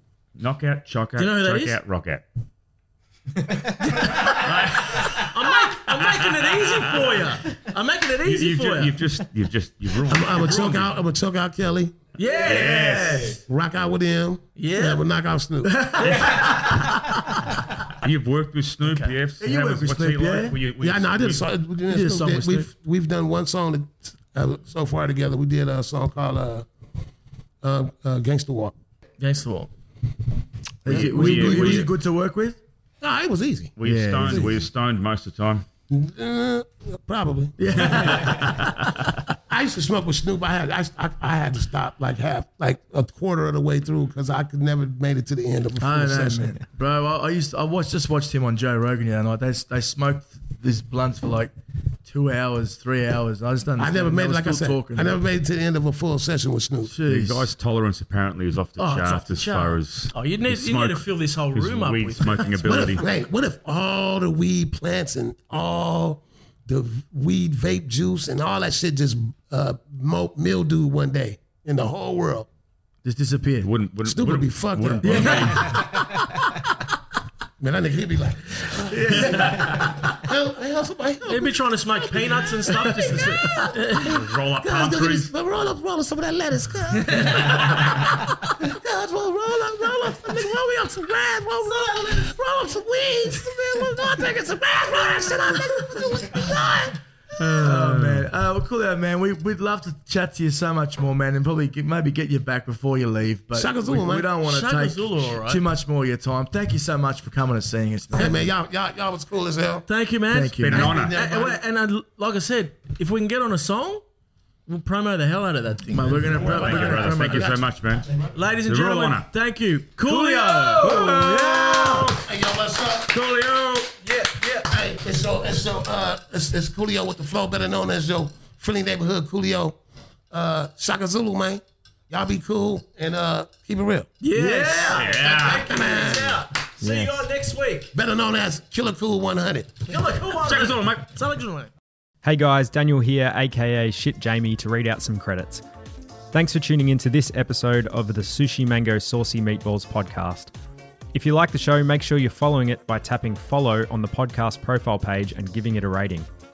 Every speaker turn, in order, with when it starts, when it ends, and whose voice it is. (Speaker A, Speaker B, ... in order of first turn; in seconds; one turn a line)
Speaker A: 0.4-2.2
Speaker B: 1.2-1.8
Speaker B: 3.8-9.0
Speaker A: 4.1-7.3
Speaker A: 8.2-10.9
Speaker C: 10.1-12.0
Speaker D: 12.2-13.4
Speaker B: 12.2-13.0
Speaker A: 12.4-13.3
Speaker C: 13.5-16.2
Speaker B: 14.6-15.0
Speaker D: 15.6-17.5
Speaker A: 16.0-17.0
Speaker A: 17.9-21.5
Speaker B: 18.8-19.1
Speaker D: 19.4-20.6
Speaker C: 20.8-26.7
Speaker D: 21.9-22.7
Speaker C: 27.6-28.7
Speaker B: 29.2-29.7
Speaker D: 30.8-32.6
Speaker A: 30.9-31.9
Speaker C: 30.9-31.9
Speaker C: 33.0-34.6
Speaker A: 33.8-35.6
Speaker D: 33.8-34.5
Speaker C: 35.9-38.3
Speaker D: 37.6-39.2
Speaker A: 37.8-39.0
Speaker C: 39.5-46.6
Speaker D: 45.8-51.5
Speaker D: 52.0-55.2
Speaker C: 53.8-57.0
Speaker D: 56.9-57.5
Speaker A: 57.0-63.0
Speaker B: 58.8-63.0
Speaker C: 62.6-72.5
Speaker D: 73.0-73.7
Speaker A: 73.6-76.0
Speaker C: 74.0-76.4
Speaker D: 75.0-76.0
Speaker C: 77.6-97.0
Speaker D: 78.8-79.9
Speaker A: 79.6-79.9
Speaker B: 81.3-84.2
Speaker D: 83.1-83.7
Speaker A: 84.0-85.3
Speaker B: 87.0-87.6
Speaker A: 97.4-98.3
Speaker D: 97.5-108.4
Speaker C: 103.5-104.3
Speaker B: 104.4-105.6
Speaker C: 108.1-109.9
Speaker B: 109.9-114.0
Speaker D: 110.3-110.9
Speaker A: 110.6-111.2
Speaker C: 110.7-111.6
Speaker B: 114.7-117.5
Speaker D: 115.9-117.6
Speaker A: 116.2-118.1
Speaker B: 118.3-121.3
Speaker A: 118.6-119.3
Speaker D: 120.0-122.2
Speaker A: 120.7-122.2
Speaker C: 122.1-123.2
Speaker A: 123.1-124.0
Speaker D: 124.0-124.6
Speaker C: 124.6-129.8
Speaker C: 130.3-134.1
Speaker B: 134.2-137.9
Speaker D: 134.3-135.2
Speaker A: 134.9-135.7
Speaker C: 135.2-136.5
Speaker E: 136.8-137.1
Speaker C: 137.9-140.1
Speaker B: 139.9-141.7
Speaker A: 140.3-141.1
Speaker E: 142.2-145.6
Speaker E: 146.3-150.5
Speaker E: 151.1-156.3